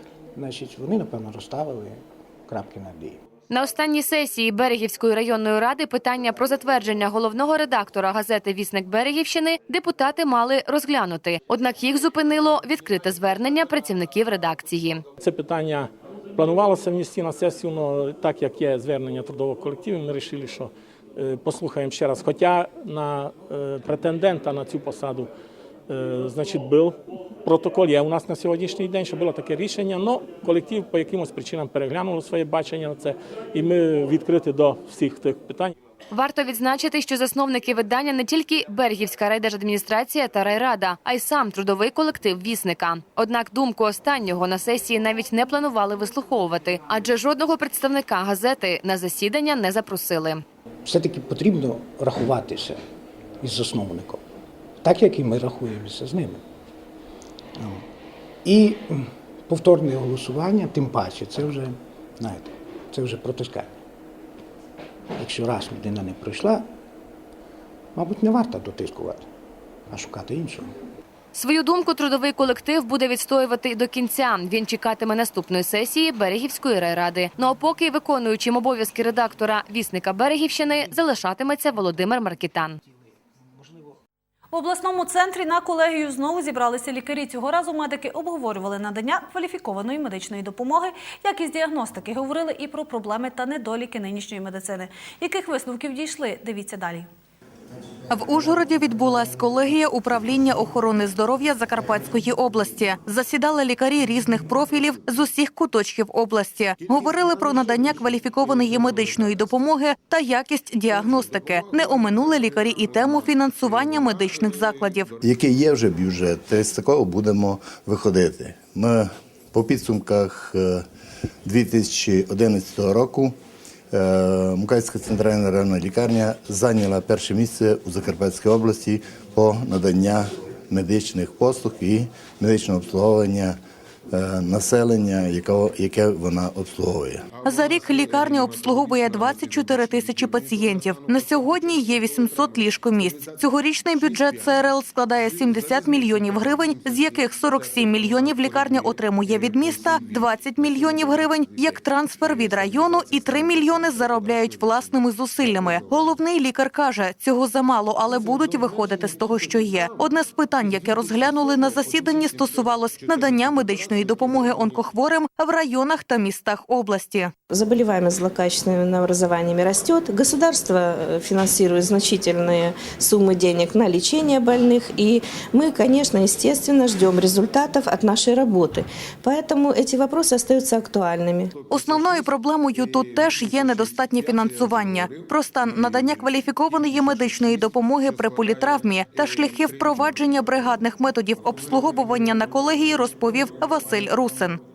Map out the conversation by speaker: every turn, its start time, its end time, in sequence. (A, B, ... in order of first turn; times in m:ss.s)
0:00.4-0:03.2 A
0:03.5-0:15.0 B
0:15.2-0:25.3 C
0:25.9-0:35.7 C
0:36.1-0:50.4 B
0:50.8-0:52.8 A
0:53.4-0:54.2 A
0:54.8-0:56.4 A
0:57.6-0:57.9 A
0:58.4-1:03.7 A
1:05.2-1:06.7 A
1:08.0-1:09.3 A
1:09.9-1:10.8 A
1:11.3-1:22.8 B
1:24.5-1:37.1 D
1:38.1-1:55.1 E
1:55.2-2:00.9 F
2:01.4-2:03.4 F
2:03.9-2:13.6 F
2:14.1-2:17.3 F
2:17.4-2:47.3 E
2:47.5-3:01.6 G
3:01.7-3:14.6 E